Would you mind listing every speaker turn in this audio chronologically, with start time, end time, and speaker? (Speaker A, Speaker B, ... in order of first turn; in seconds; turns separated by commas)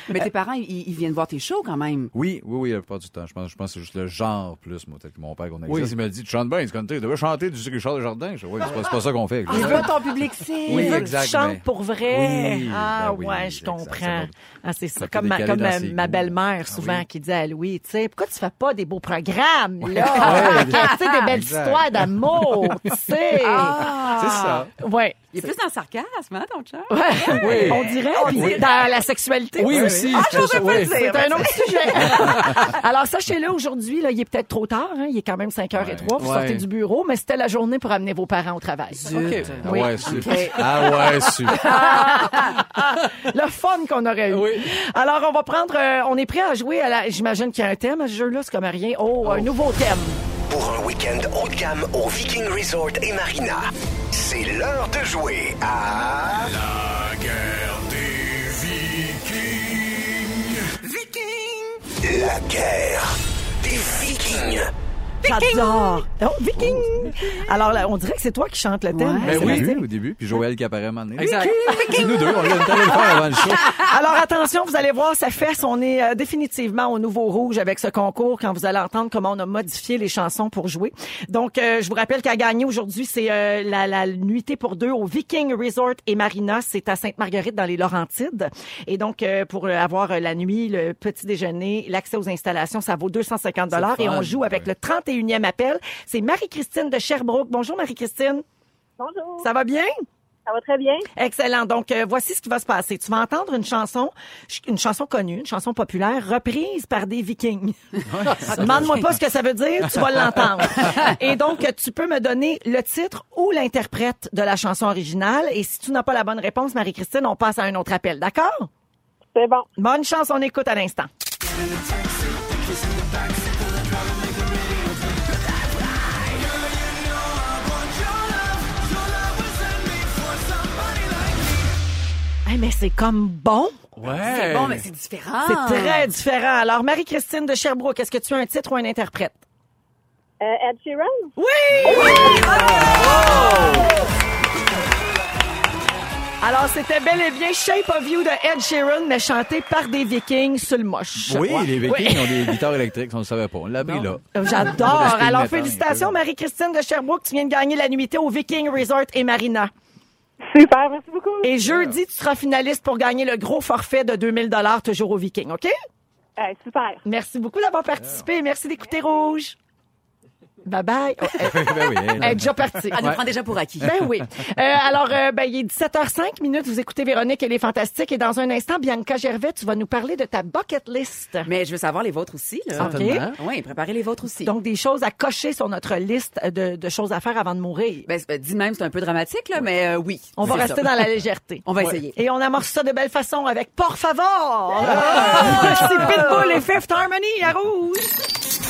Speaker A: 0.1-2.1, Speaker B: 2.1-10.0, Speaker C: 5.7-5.9, Speaker D: 9.5-9.9, Speaker A: 9.5-11.1, Speaker B: 10.7-14.3, Speaker D: 10.7-23.9, Speaker B: 15.0-17.1, Speaker A: 19.9-21.4, Speaker C: 20.1-20.9, Speaker B: 21.3-22.5, Speaker A: 23.4-24.7, Speaker B: 23.7-24.7, Speaker D: 24.8-25.5, Speaker A: 25.3-29.0, Speaker D: 26.9-40.1, Speaker C: 27.4-28.6, Speaker C: 29.6-31.0, Speaker B: 29.6-30.4, Speaker A: 30.1-32.6, Speaker B: 32.1-32.7, Speaker B: 35.7-36.1, Speaker C: 36.2-36.6, Speaker A: 38.9-42.6, Speaker C: 39.1-39.5, Speaker B: 39.4-41.8, Speaker C: 40.7-41.2, Speaker D: 41.5-50.2, Speaker C: 42.2-42.5, Speaker C: 44.3-44.7, Speaker E: 50.5-56.5, Speaker E: 58.3-59.7, Speaker E: 61.9-64.7, Speaker A: 65.2-66.0, Speaker D: 65.2-69.8, Speaker B: 66.5-67.2, Speaker A: 68.9-69.6, Speaker B: 69.2-73.8, Speaker C: 69.2-69.7, Speaker C: 71.2-72.2, Speaker A: 71.6-73.8, Speaker D: 73.6-98.4, Speaker C: 93.7-94.6, Speaker F: 99.0-99.5, Speaker D: 99.4-99.9, Speaker F: 100.5-101.1, Speaker D: 101.2-107.8, Speaker B: 108.0-109.2, Speaker C: 108.3-108.7, Speaker D: 108.4-118.7, Speaker B: 109.8-110.1, Speaker F: 119.3-119.7, Speaker D: 119.8-121.1, Speaker D: 132.4-133.8, Speaker C: 134.0-134.8, Speaker A: 134.2-136.1, Speaker D: 135.4-139.4, Speaker F: 140.4-141.3, Speaker D: 141.4-143.9, Speaker B: 141.9-143.1, Speaker A: 141.9-143.9, Speaker D: 146.4-152.6, Speaker B: 151.2-156.2, Speaker D: 154.3-159.7, Speaker F: 160.5-161.5, Speaker D: 161.4-165.7, Speaker F: 166.4-167.0, Speaker D: 167.0-169.6, Speaker B: 168.0-168.2, Speaker D: 170.6-173.1, Speaker B: 171.4-172.9, Speaker A: 172.9-173.9, Speaker C: 173.0-173.2, Speaker D: 173.8-181.5, Speaker A: 181.4-184.5, Speaker C: 182.8-183.4, Speaker D: 182.8-183.3, Speaker D: 184.4-188.1, Speaker A: 188.1-190.6, Speaker D: 190.3-198.3, Speaker C: 190.4-191.1, Speaker A: 191.6-192.2, Speaker B: 195.1-195.5, Speaker A: 195.2-196.2